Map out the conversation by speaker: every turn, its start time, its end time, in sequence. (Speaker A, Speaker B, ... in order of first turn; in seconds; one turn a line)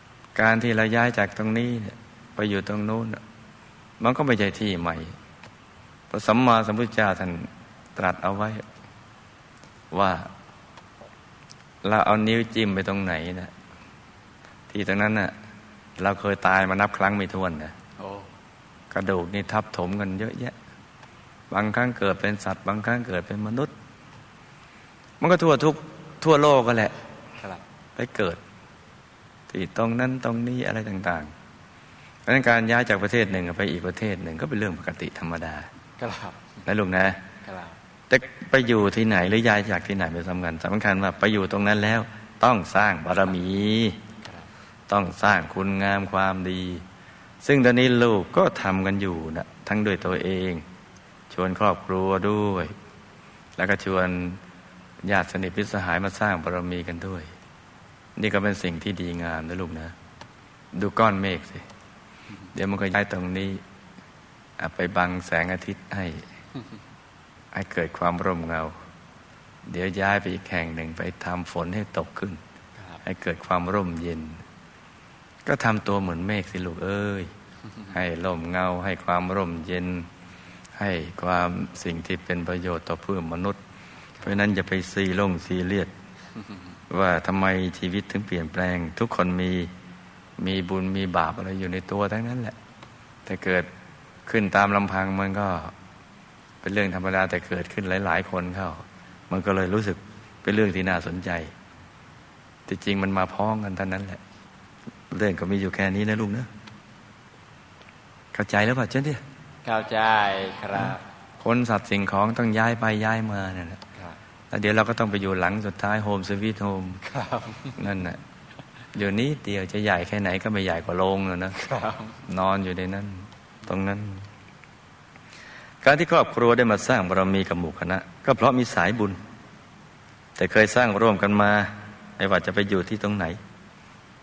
Speaker A: 0.3-3.2
Speaker A: 4.0-5.2
Speaker A: 6.1-8.7
Speaker A: 9.9-10.3
Speaker A: 11.8-13.5
Speaker A: 14.7-15.3
Speaker A: 16.0-17.8
Speaker B: 18.0-18.3
Speaker A: 18.9-20.6
Speaker A: 21.5-23.7
Speaker A: 25.2-27.0
Speaker A: 28.0-28.4
Speaker A: 29.5-31.3
Speaker A: 32.3-35.7
Speaker B: 36.0-36.4
Speaker A: 36.6-37.2
Speaker B: 37.4-37.8
Speaker A: 38.1-44.0
Speaker B: 44.2-44.5
Speaker A: 44.9-46.8
Speaker A: 47.4-50.6
Speaker A: 51.3-52.7
Speaker A: 53.6-54.4
Speaker A: 55.0-57.3
Speaker A: 58.2-60.0
Speaker A: 60.7-61.7
Speaker A: 62.5-63.6
Speaker A: 64.6-66.3
Speaker A: 67.5-68.8
Speaker A: 69.7-72.4
Speaker A: 73.0-74.4
Speaker A: 75.5-77.3
Speaker A: 77.9-80.1
Speaker A: 80.8-83.6
Speaker A: 84.2-85.9
Speaker A: 86.9-89.7
Speaker A: 90.4-92.6
Speaker A: 93.3-93.7
Speaker A: 94.3-95.7
Speaker A: 96.6-101.5
Speaker A: 102.7-104.2
Speaker A: 105.1-106.5
Speaker A: 108.3-109.2
Speaker B: 109.7-111.0
Speaker A: 110.8-113.8
Speaker A: 114.5-117.0
Speaker B: 117.0-117.8
Speaker A: 117.8-118.2
Speaker A: 118.9-121.6
Speaker B: 121.6-122.2
Speaker A: 122.3-124.3
Speaker A: 125.8-129.2
Speaker A: 130.4-133.4